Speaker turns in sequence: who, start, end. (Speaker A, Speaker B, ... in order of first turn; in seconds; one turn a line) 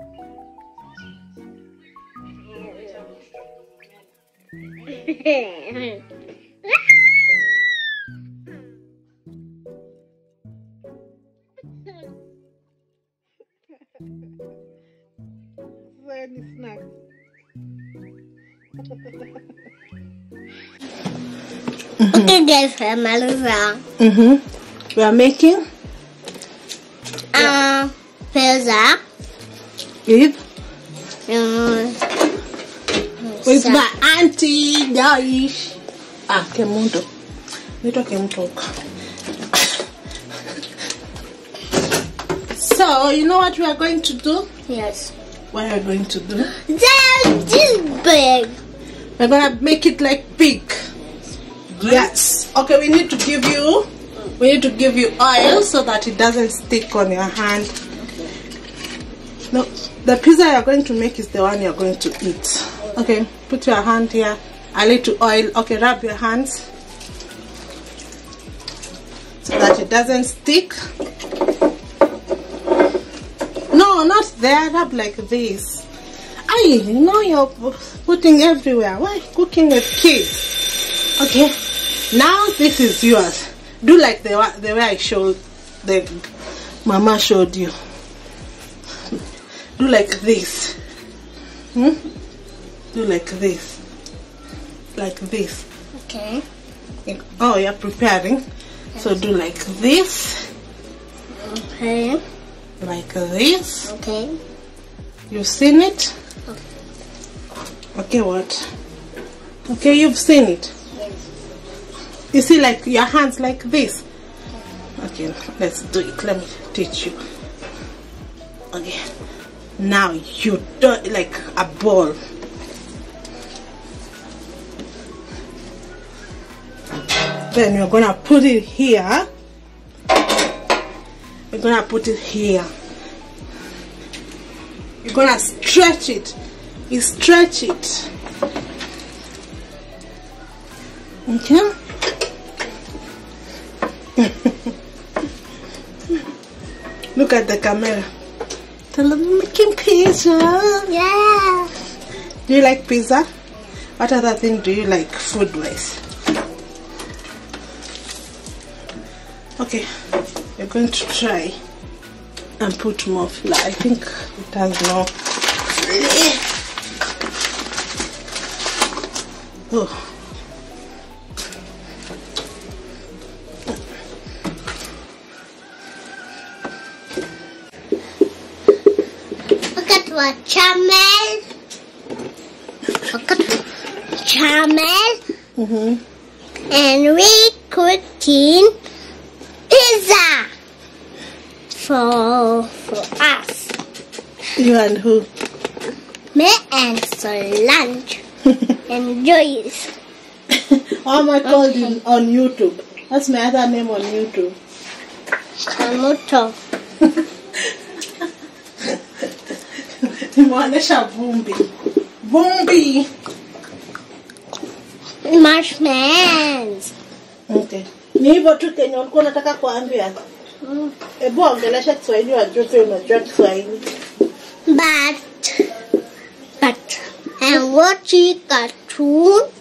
Speaker A: 2.5-3.0
Speaker A: 4.8-6.0
Speaker B: 16.0-16.8
Speaker B: 22.0-22.4
Speaker A: 22.1-23.8
Speaker B: 24.0-24.4
Speaker B: 24.9-25.6
Speaker A: 27.3-29.0
Speaker B: 30.1-30.4
Speaker A: 31.3-32.0
Speaker A: 33.2-33.9
Speaker B: 33.4-35.8
Speaker B: 36.3-37.0
Speaker B: 37.8-38.7
Speaker B: 42.5-44.5
Speaker A: 44.7-45.1
Speaker B: 45.5-46.5
Speaker A: 46.5-48.6
Speaker B: 49.2-50.8
Speaker B: 51.7-57.7
Speaker A: 58.0-58.3
Speaker B: 59.5-66.6
Speaker B: 69.4-70.8
Speaker B: 73.7-75.8
Speaker B: 76.5-80.5
Speaker B: 81.2-81.5
Speaker B: 82.1-86.2
Speaker B: 86.8-87.7
Speaker B: 89.8-90.8
Speaker B: 92.9-93.8
Speaker B: 94.9-95.6
Speaker A: 95.9-96.4
Speaker B: 97.0-98.4
Speaker B: 99.0-100.5
Speaker A: 101.3-102.2
Speaker B: 102.8-103.9
Speaker A: 103.9-104.3
Speaker B: 105.3-106.1
Speaker B: 107.9-108.7
Speaker B: 109.7-110.7
Speaker A: 110.9-111.2
Speaker B: 112.3-114.0
Speaker B: 115.0-117.2
Speaker B: 118.7-119.0
Speaker B: 119.8-122.2
Speaker B: 127.5-129.3
Speaker B: 131.5-132.7
Speaker B: 135.0-136.3
Speaker B: 136.9-138.1
Speaker B: 141.3-141.7
Speaker B: 144.2-144.5
Speaker B: 147.1-148.1
Speaker B: 148.9-150.9
Speaker A: 150.9-151.7
Speaker B: 152.5-153.3
Speaker B: 154.0-156.0
Speaker B: 159.6-159.9
Speaker B: 160.6-161.6
Speaker B: 162.6-165.1
Speaker B: 165.8-166.4
Speaker B: 169.7-170.0
Speaker A: 179.7-181.4
Speaker A: 183.1-183.6
Speaker A: 184.2-185.2
Speaker B: 185.6-186.0
Speaker A: 186.7-188.7
Speaker A: 189.7-190.5
Speaker A: 191.7-193.7
Speaker B: 194.6-195.3
Speaker A: 196.3-198.2
Speaker A: 198.9-199.9
Speaker B: 200.5-204.6
Speaker A: 201.4-202.0
Speaker A: 205.7-206.6
Speaker B: 210.0-211.7
Speaker B: 212.2-213.1
Speaker A: 215.2-216.9
Speaker B: 217.5-220.2
Speaker A: 220.6-220.9
Speaker B: 221.2-223.9
Speaker A: 224.7-225.7
Speaker A: 226.6-229.5